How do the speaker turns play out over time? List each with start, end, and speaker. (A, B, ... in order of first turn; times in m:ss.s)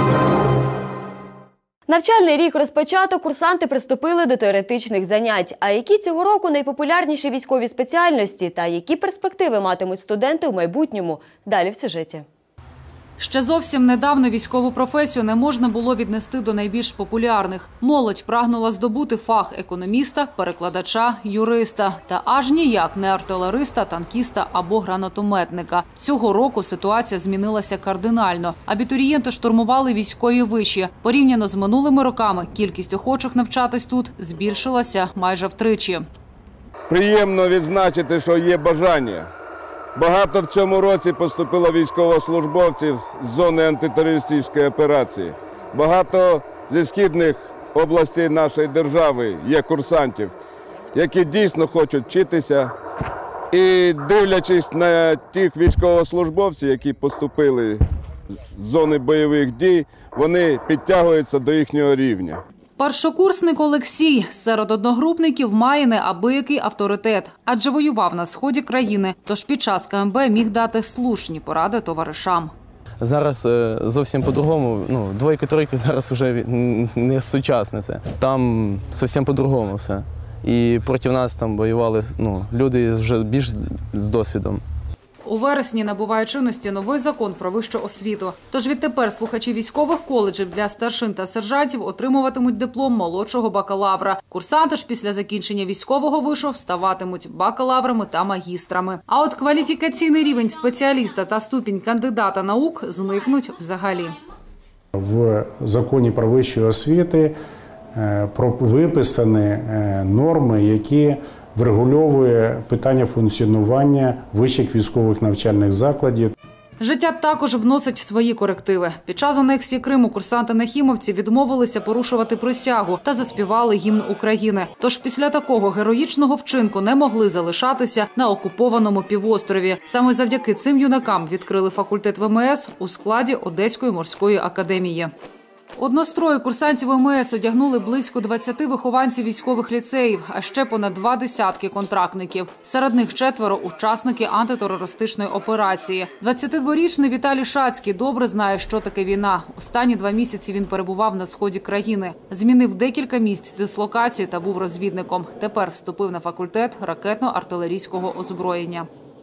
0:01.9-0:12.2 A
0:13.2-0:36.1 B
0:36.9-0:39.3 C
0:40.0-0:50.3 C
0:50.9-0:52.7 C
0:53.5-1:02.4 C
1:02.8-1:12.5 B
1:13.0-1:24.6 D
1:25.3-1:44.2 B
1:45.0-1:47.3 E
1:48.0-1:56.3 E
1:56.8-2:15.1 B
2:15.8-2:38.9 B